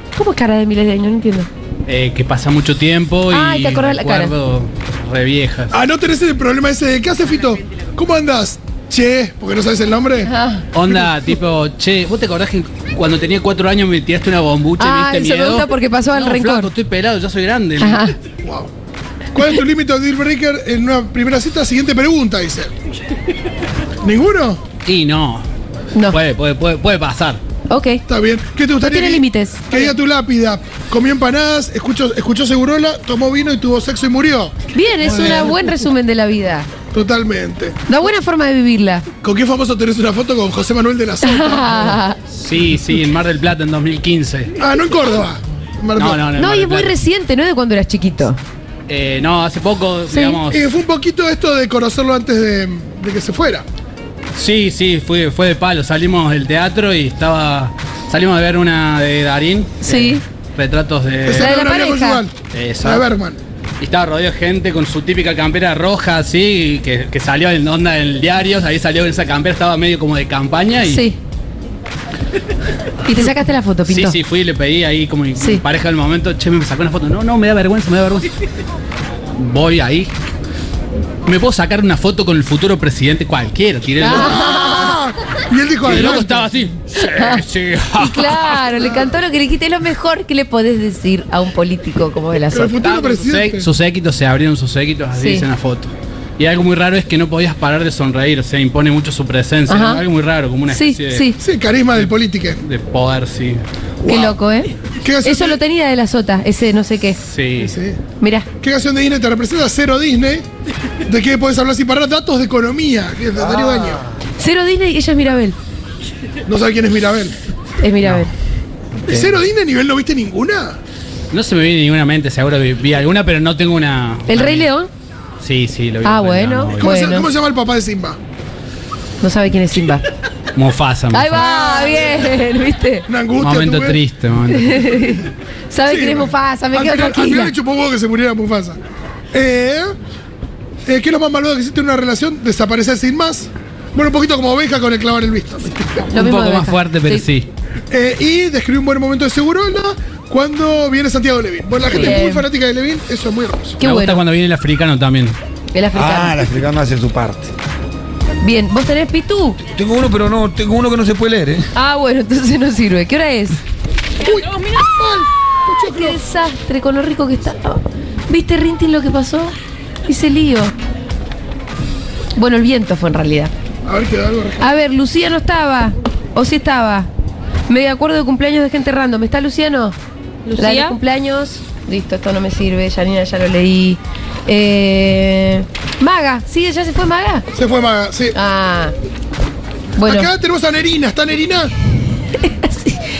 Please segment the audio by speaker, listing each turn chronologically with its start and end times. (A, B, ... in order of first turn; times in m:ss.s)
0:00.2-0:01.5 A
0:01.9-0:05.7 B
0:03.3-0:04.3 A
0:05.7-0:10.3 C
0:10.3-0:10.7 A
0:10.7-0:18.1 B
0:14.8-0:16.7 A
0:17.8-0:18.1 A
0:18.4-0:18.7 C
0:19.3-0:22.7 C
0:24.0-0:24.6 C
0:24.8-0:25.5 B
0:26.1-0:27.4 B
0:27.7-0:28.0 A
0:28.1-0:34.5 C
0:28.8-0:29.8 A
0:34.7-0:36.7 A
0:35.1-0:35.6 C
0:36.9-0:37.8 C
0:37.9-0:39.1 A
0:39.2-0:42.0 C
0:41.2-0:42.2 A
0:42.3-0:44.5 B
0:44.6-0:46.2 C
0:46.0-0:47.0 B
0:46.4-0:48.4 A
0:48.9-0:50.7 B
0:50.1-0:50.4 A
0:50.5-0:53.6 C
0:54.4-1:01.5 B
0:59.8-1:00.2 A
1:01.3-1:03.4 C
1:01.4-1:02.2 A
1:02.5-1:03.1 B
1:03.8-1:11.1 B
1:10.8-1:11.2 A
1:13.0-1:14.2 A
1:13.8-1:18.3 B
1:19.4-1:20.1 B
1:21.3-1:24.3 B
1:24.0-1:25.0 A
1:24.1-1:26.4 C
1:25.8-1:28.7 B
1:27.0-1:27.4 A
1:28.0-1:32.8 A
1:32.5-1:33.7 C
1:32.8-1:41.3 B
1:35.2-1:35.5 A
1:39.7-1:40.0 A
1:40.7-1:41.4 A
1:41.4-1:42.6 C
1:41.9-1:43.6 B
1:44.0-1:47.2 A
1:44.1-1:44.4 C
1:45.0-1:45.6 C
1:47.2-1:47.8 B
1:47.6-1:48.0 C
1:48.2-1:48.5 A
1:48.6-1:50.5 C
1:51.1-1:54.0 C
1:54.4-1:55.6 A
1:56.5-1:57.3 C
1:57.8-1:58.3 A
1:59.1-2:00.8 C
1:59.1-1:59.4 D
2:01.3-2:04.7 B
2:04.3-2:04.9 A
2:05.4-2:07.0 B
2:06.0-2:07.3 A
2:06.8-2:08.2 C
2:09.2-2:10.0 A
2:10.6-2:11.5 B
2:11.1-2:13.1 A
2:11.4-2:12.3 C
2:13.1-2:14.0 C
2:13.4-2:14.9 B
2:14.5-2:17.5 A
2:15.8-2:18.8 C
2:19.3-2:19.9 C
2:20.9-2:26.1 C
2:26.1-2:27.3 A
2:26.1-2:27.5 B
2:27.9-2:33.8 C
2:31.9-2:32.5 A
2:33.8-2:34.2 A
2:33.8-2:35.4 B
2:35.7-2:36.4 A
2:35.9-2:37.5 D
2:38.4-2:39.6 A
2:39.7-2:41.7 D
2:41.8-2:43.6 A
2:44.2-2:46.2 C
2:45.9-2:49.5 A
2:50.1-2:50.7 A
2:52.4-2:53.5 A
2:53.9-2:54.7 C
2:54.6-2:57.1 A
2:57.7-3:00.0 A
3:00.6-3:07.5 A
3:07.5-3:08.4 C
3:08.3-3:08.9 A
3:10.0-3:10.3 A
3:10.0-3:11.7 C
3:12.4-3:13.0 A